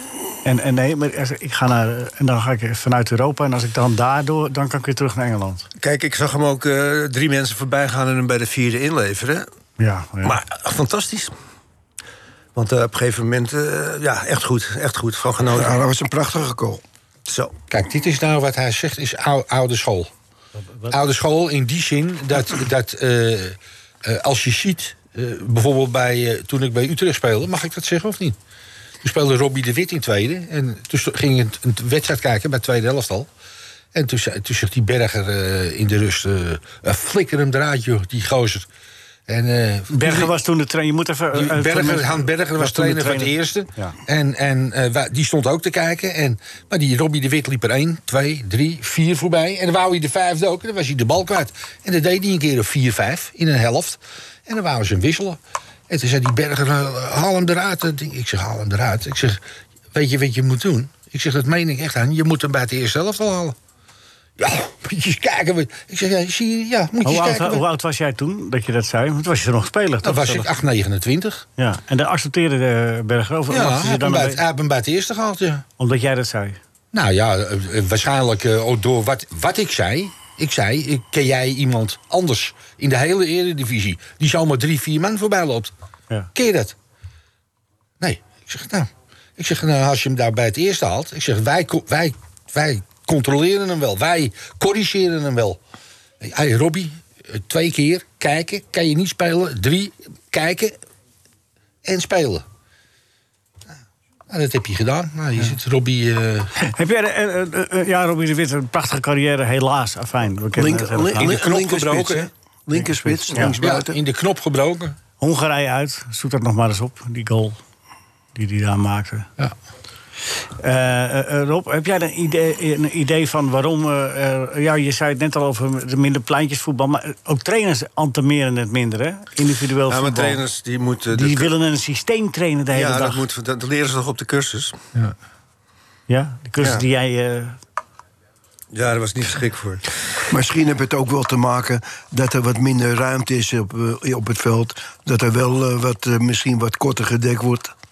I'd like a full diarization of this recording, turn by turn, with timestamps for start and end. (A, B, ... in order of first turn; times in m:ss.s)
0:00.4-0:05.6 A
0:05.8-0:09.5 B
0:09.8-0:10.4 A
0:10.2-0:11.3 B
0:12.5-0:15.8 B
0:15.5-0:16.8 C
0:17.3-0:17.6 B
0:17.7-0:20.1 D
0:20.6-0:21.0 A
0:20.9-0:28.4 D
0:29.0-0:33.3 D
0:33.9-0:38.7 D
0:39.3-0:40.3 D
0:39.9-0:44.0 A
0:41.3-0:55.4 D
0:55.9-0:59.4 D
0:59.9-1:03.6 D
1:04.4-1:07.6 D
1:07.0-1:10.5 A
1:10.0-1:11.4 D
1:11.6-1:14.4 A
1:13.5-1:15.6 D
1:15.8-1:16.6 A
1:16.9-1:25.7 D
1:26.4-1:26.8 D
1:28.0-1:35.6 D
1:36.2-1:40.8 D
1:41.8-1:42.4 D
1:44.3-1:46.5 D
1:46.6-1:51.3 A
1:50.5-1:54.0 C
1:51.2-1:52.3 D
1:53.1-1:53.5 A
1:53.6-1:55.0 D
1:55.2-1:57.6 A
1:58.4-1:59.3 A
2:00.6-2:10.4 A
2:09.9-2:11.5 B
2:11.1-2:13.2 A
2:12.7-2:14.8 B
2:16.1-2:17.6 A
2:18.7-2:19.9 B
2:20.3-2:27.7 C